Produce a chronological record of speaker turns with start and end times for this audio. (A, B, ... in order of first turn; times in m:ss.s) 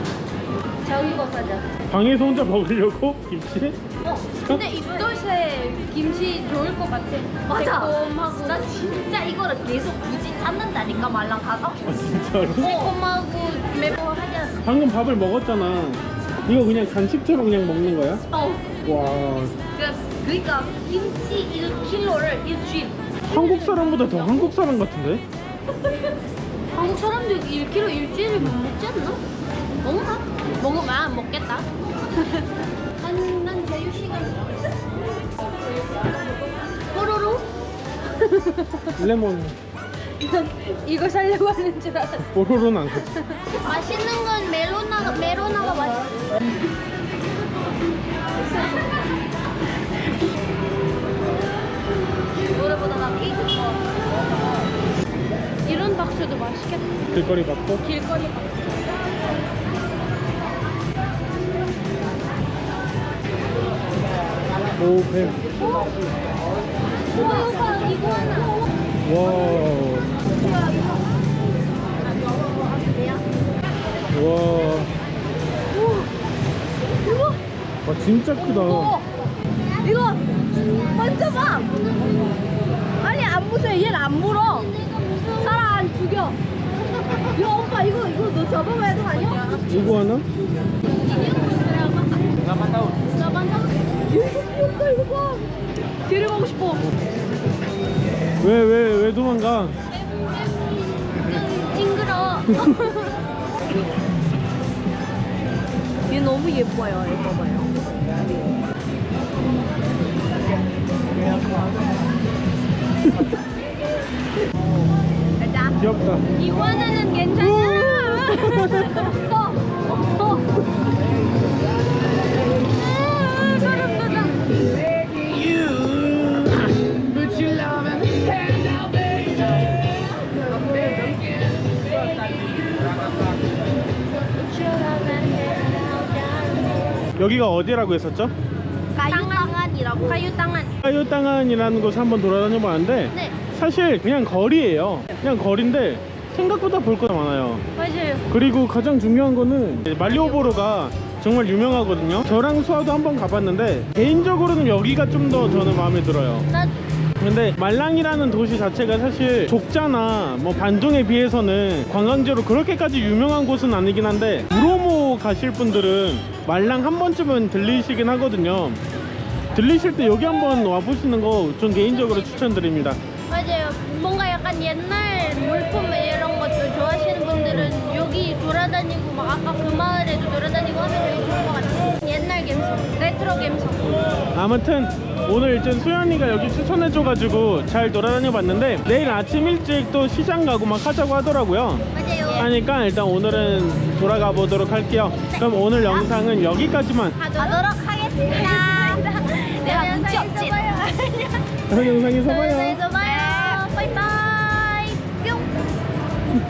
0:00.8-0:01.6 A
0:01.9-0:03.8 B
0:04.0-0:05.1 A
0:04.5-0:08.7 C
0:07.5-0:11.8 A
0:11.9-0:12.8 B
0:12.6-0:13.0 A
0:12.6-0:14.6 C
0:14.6-0:18.2 B
0:18.3-0:18.7 A
0:18.8-0:19.6 B
0:19.8-0:23.0 A
0:23.3-0:25.2 B
0:23.3-0:24.4 C
0:26.8-0:29.2 C
0:29.8-0:32.5 C
0:33.0-0:34.7 C
0:36.9-0:37.5 C
0:38.2-0:39.0 C
0:39.0-0:39.6 B
0:40.2-0:42.3 C
0:42.3-0:43.1 B
0:43.5-0:46.2 C
0:52.4-0:54.2 A
0:55.7-0:57.0 C
0:57.1-0:57.8 B
0:57.8-0:58.7 C
1:04.8-1:05.4 B
1:05.4-1:05.8 A
1:05.6-1:05.9 C
1:07.1-1:08.7 C
1:07.1-1:07.7 A
1:09.0-1:10.1 B
1:10.3-1:11.0 A
1:12.6-1:13.2 A
1:14.1-1:14.9 B
1:15.7-1:16.1 A
1:17.0-1:17.4 A
1:17.8-1:19.0 B
1:18.4-1:19.0 A
1:18.5-1:19.0 C
1:19.8-1:21.8 A
1:23.0-1:24.7 A
1:24.4-1:25.9 C
1:25.4-1:26.4 A
1:27.0-1:29.8 A
1:29.2-1:29.6 C
1:29.7-1:30.3 B
1:31.0-1:32.3 C
1:33.1-1:33.9 C
1:34.1-1:35.4 A
1:36.1-1:36.8 C
1:38.4-1:39.8 B
1:39.9-1:43.1 C
1:42.5-1:42.8 B
1:46.1-1:47.7 A
1:53.0-1:53.3 B
1:55.4-1:55.8 A
1:55.8-1:56.2 B
1:56.4-2:00.4 C
1:57.4-1:59.0 B
2:02.7-2:04.5 C
2:10.4-2:11.3 A
2:14.3-2:17.0 C
2:17.2-2:18.3 B
2:19.0-2:20.3 A
2:19.1-2:20.8 C
2:20.8-2:27.6 B
2:27.8-2:28.3 C
2:28.3-2:36.5 B
2:30.1-2:30.5 C
2:37.2-2:48.8 B
2:49.5-2:53.0 B
2:51.8-2:52.6 C
2:53.3-3:04.0 C
2:57.5-2:57.8 B
3:04.3-3:17.2 B
3:11.9-3:12.5 A
3:15.4-3:16.0 A
3:17.2-3:17.6 C
3:17.2-3:19.1 A
3:18.2-3:21.4 C
3:19.6-3:20.8 A
3:21.7-3:22.8 B
3:22.3-3:25.5 C
3:22.3-3:23.7 A